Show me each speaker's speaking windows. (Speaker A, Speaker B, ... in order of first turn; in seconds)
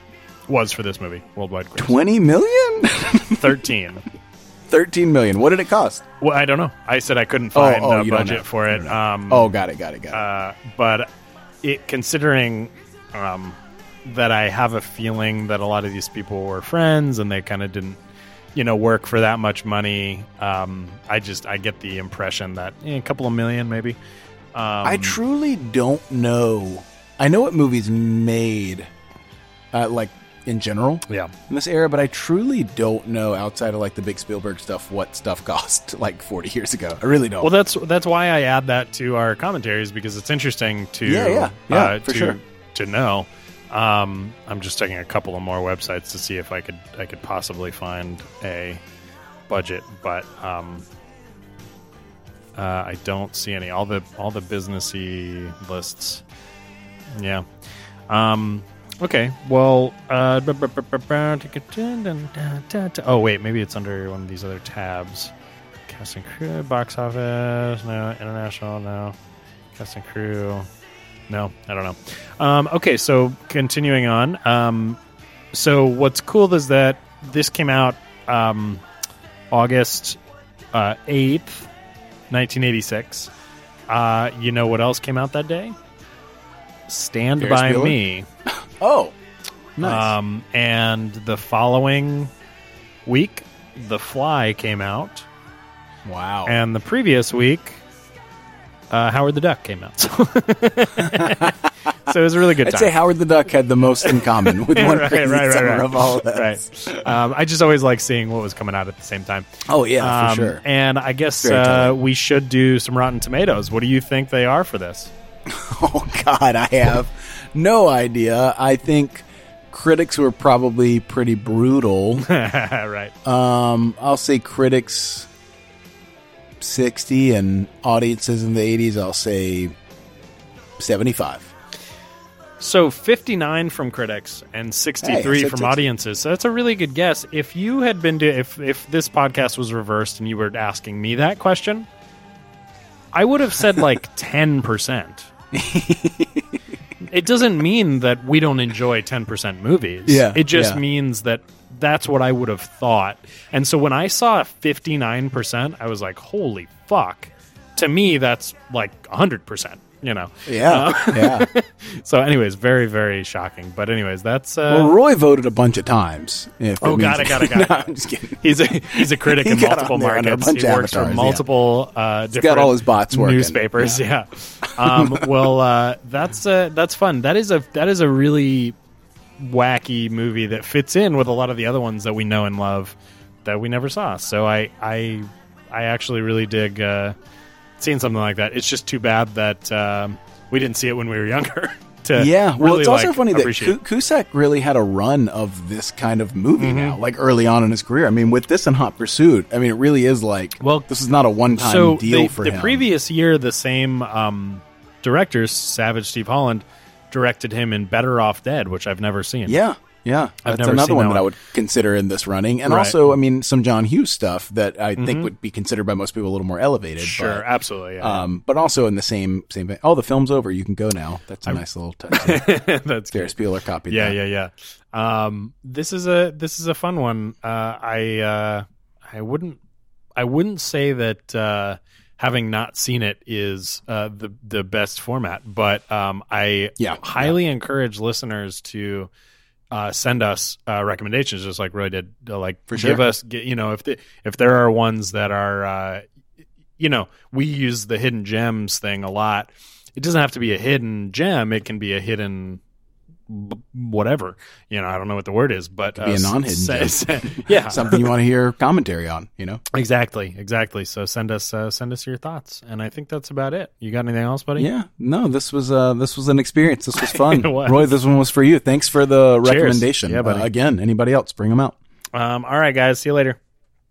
Speaker A: 0.5-2.0, 3.3-4.0, 6.2-9.5, 10.1-11.1, 11.6-18.0, 18.5-24.0, 24.5-25.2, 37.4-48.8, 49.5-50.9, 52.5-56.2, 57.1-57.5, 58.1-65.3, 65.9-69.2, 69.8-70.7, 71.3-75.0, 75.5-78.8, 79.5-80.2, 80.7-81.7, 82.3-83.3, 83.9-85.8, 86.9-88.2, 89.8-92.3, 93.0-95.2, 96.5-97.8, 98.9-101.5, 102.1-102.9, 104.7-109.5, 110.0-115.1, 122.2-123.1, 132.6-141.9, 143.1-145.3, 147.0-164.9, 166.8-178.8, 179.4-187.2, 187.8-193.8, 196.6-197.0, 200.6-200.9, 201.5-209.6, 210.4-211.3, 212.6-213.1, 215.0-215.3, 217.0-218.2, 222.1-223.3, 223.9-229.6, 230.2-239.1, 239.7-246.0, 246.8-252.6, 253.3-258.1, 259.7-264.7, 267.0-267.9, 269.4-270.5, 272.1-273.4
Speaker B: 1.8-3.7, 4.7-6.0, 7.5-10.2, 24.8-28.9, 29.7-37.5, 41.0-42.4, 87.4-89.1, 89.8-90.1, 96.0-96.6, 101.0-101.5, 102.6-107.1, 109.7-110.6, 111.4-111.9, 115.5-122.3, 123.2-125.3, 126.6-129.7, 130.8-131.5, 135.0-135.8, 145.5-146.6, 150.1-150.8, 160.4-161.5, 164.7-171.4, 172.3-174.0, 174.8-175.3, 192.1-202.8, 209.4-217.4, 218.0-224.2, 236.8-237.3, 242.7-243.0, 256.0-259.6, 264.6-271.8